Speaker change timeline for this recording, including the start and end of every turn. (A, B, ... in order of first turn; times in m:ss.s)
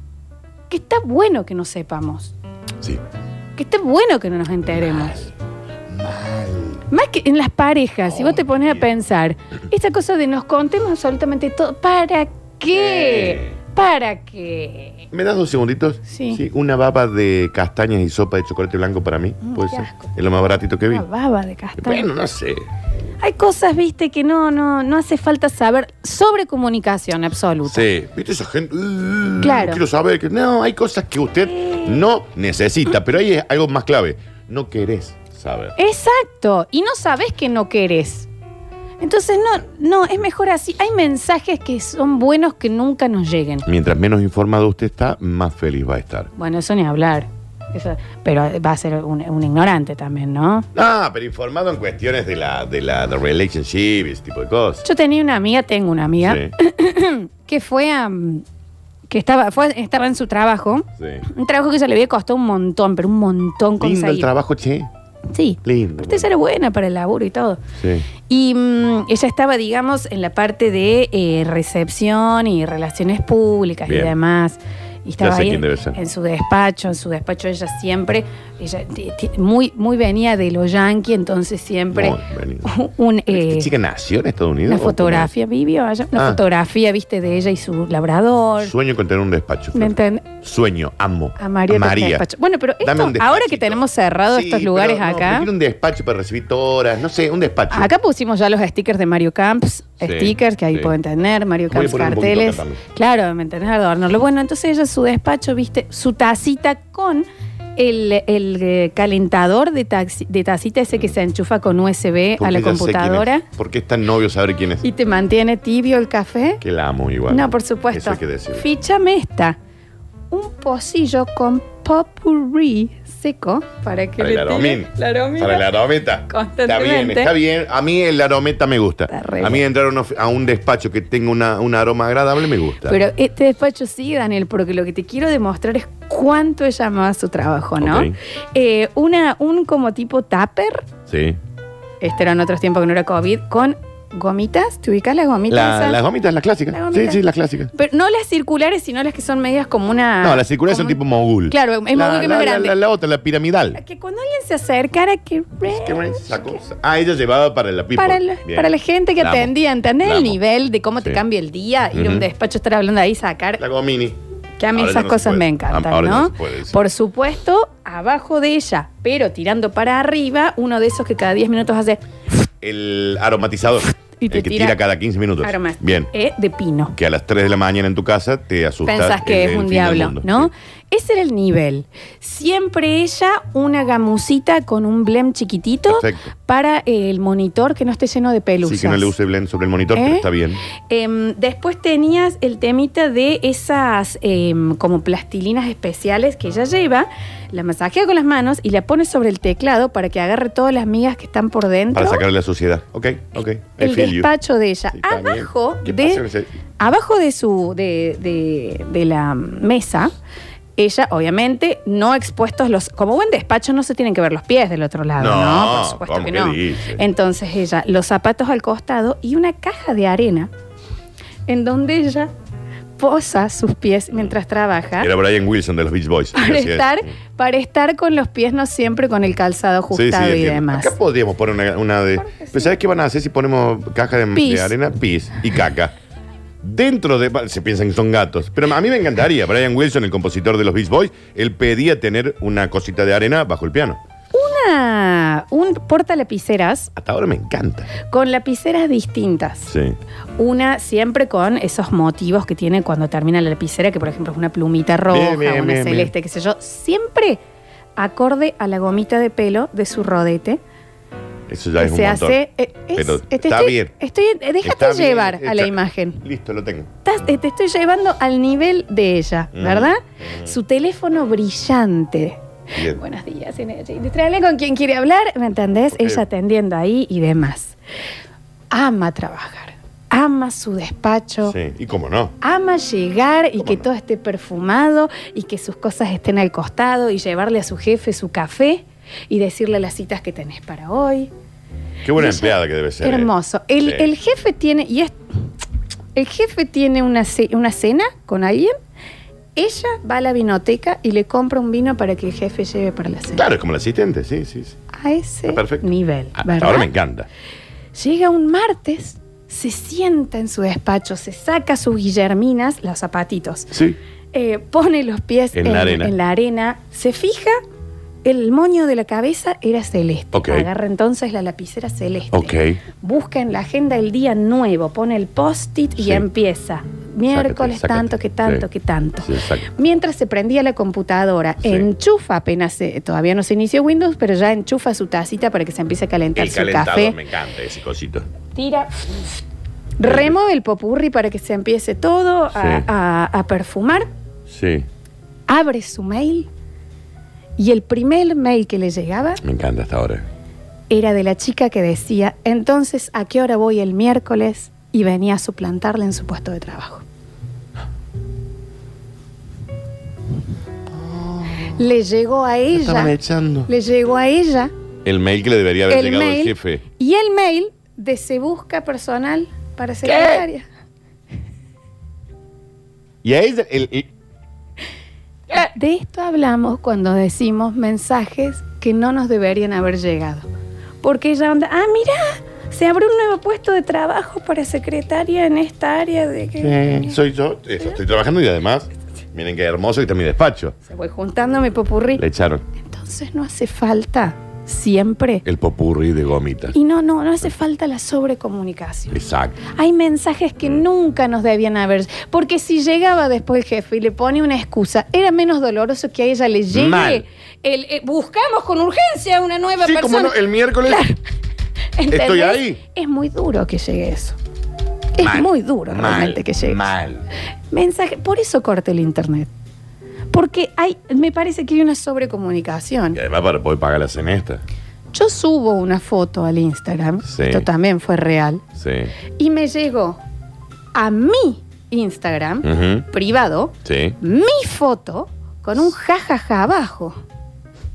0:00.7-0:02.3 A
0:03.6-0:05.2 A
0:04.7-0:05.3 B
0:05.9-0:06.8 B
0:06.9-0:15.1 A
0:08.1-0:08.8 B
0:12.7-0:13.6 B
0:15.1-0:21.1 B
0:16.1-0:16.4 A
0:19.4-0:20.1 A
0:20.9-0:22.1 A
0:21.8-0:22.7 B
0:23.2-0:27.9 A
0:27.6-0:35.8 B
0:29.4-0:29.8 A
0:31.4-0:32.0 A
0:35.8-0:38.3 A
0:39.0-0:43.7 A
0:43.6-0:46.3 B
0:46.4-0:50.7 A
0:50.8-0:54.8 B
0:54.8-0:58.4 A
0:56.2-0:56.5 B
0:59.1-1:04.3 A
1:01.0-1:01.3 B
1:03.8-1:04.9 B
1:05.3-1:07.6 A
1:05.6-1:06.3 B
1:07.8-1:08.1 B
1:08.3-1:23.7 A
1:13.9-1:14.2 B
1:15.2-1:16.0 B
1:21.9-1:22.7 B
1:23.3-1:25.3 B
1:24.7-1:28.7 A
1:26.2-1:26.4 B
1:28.6-1:32.3 B
1:29.7-1:30.3 A
1:31.4-1:35.5 A
1:32.8-1:37.9 B
1:37.7-1:53.4 A
1:40.0-1:41.0 B
1:41.7-1:42.8 B
1:52.4-1:54.9 B
1:54.8-1:56.6 A
1:56.6-1:58.7 B
1:57.3-1:59.6 A
2:00.3-2:05.7 A
2:04.2-2:13.0 B
2:06.3-2:07.3 A
2:09.1-2:09.6 A
2:12.9-2:20.9 A
2:17.8-2:18.2 B
2:21.1-2:21.4 B
2:22.0-2:26.0 A
2:25.5-2:27.7 B
2:26.7-2:27.2 A
2:27.7-2:32.8 A
2:30.2-2:33.8 B
2:33.8-2:36.6 A
2:35.6-2:40.4 B
2:38.0-2:43.6 A
2:41.9-2:42.3 B
2:43.6-2:44.2 B
2:44.6-2:52.0 A
2:44.7-2:46.8 B
2:52.6-2:56.1 B
2:54.2-2:54.8 A
2:55.4-2:57.0 A
2:57.0-3:00.5 B
2:58.8-3:09.1 A
3:05.9-3:06.3 B
3:08.6-3:10.6 B
3:09.9-3:10.3 A
3:10.9-3:22.2 A
3:21.9-3:24.3 B
3:23.8-3:26.2 A
3:24.9-3:26.5 B
3:26.8-3:30.1 A
3:30.8-3:40.5 A
3:35.2-3:37.0 B
3:41.5-3:42.3 A
3:43.0-3:45.1 A
3:45.0-3:47.1 B
3:46.3-3:50.9 A
3:49.9-3:55.9 B
3:52.2-3:52.7 A
3:54.3-3:54.7 A
3:56.6-4:04.0 B
4:04.3-4:06.9 A
4:07.0-4:07.9 B
4:08.1-4:09.7 A
4:09.7-4:10.0 B
4:10.4-4:17.4 A
4:15.1-4:16.1 B
4:18.0-4:20.6 A
4:21.5-4:22.4 B
4:21.8-4:26.2 A
4:22.9-4:23.9 B
4:24.6-4:26.9 B
4:27.0-4:32.4 A
4:29.5-4:30.5 B
4:32.7-4:33.0 B
4:32.9-4:37.8 A
4:35.9-4:36.2 B
4:38.7-4:41.6 A
4:41.4-4:42.4 B
4:42.4-4:51.3 A
4:43.6-4:43.9 B
4:52.0-4:53.3 B
4:52.2-4:55.2 A
4:53.8-4:54.1 B
4:56.2-4:58.8 A
4:59.6-5:03.4 A
5:03.3-5:04.8 B
5:04.9-5:06.9 A
5:05.5-5:07.3 B
5:07.9-5:13.7 A
5:13.7-5:14.0 B
5:14.3-5:17.6 A
5:15.5-5:16.1 B
5:18.2-5:37.2 A
5:20.3-5:20.7 B
5:22.3-5:22.8 B
5:26.0-5:26.3 B
5:27.3-5:28.7 B
5:29.2-5:29.7 B
5:31.6-5:31.9 B
5:36.4-5:38.3 B
5:38.6-5:39.1 A
5:40.0-5:44.1 A
5:40.0-5:40.4 B
5:42.5-5:42.9 B
5:44.5-5:44.9 B
5:45.5-5:46.5 A
5:47.6-5:49.4 A
5:49.4-5:50.3 B
5:50.9-5:57.0 A
6:00.9-6:01.8 B
6:01.8-6:03.2 A
6:02.7-6:03.7 B
6:03.7-6:04.7 A
6:05.0-6:06.8 B
6:05.9-6:10.7 A
6:10.0-6:10.5 B
6:13.2-6:14.1 B
6:15.5-6:20.5 A
6:21.0-6:27.2 A
6:26.6-6:30.8 B
6:30.9-6:32.2 A
6:32.2-6:32.6 B
6:32.8-6:35.4 A
6:35.4-6:36.8 B
6:36.7-6:51.2 A
6:39.1-6:39.6 B
6:46.7-6:47.2 B
6:49.8-6:51.0 B
6:52.0-6:54.4 A
6:52.1-6:52.8 B
6:55.2-6:56.8 A
6:55.2-6:57.2 B
6:57.7-6:59.5 A
7:00.3-7:03.2 A
7:03.1-7:04.6 B
7:05.1-7:08.6 A
7:07.2-7:07.7 B
7:08.8-7:09.1 B
7:09.4-7:10.2 A
7:10.9-7:17.2 A
7:12.6-7:13.1 B
7:13.8-7:14.2 B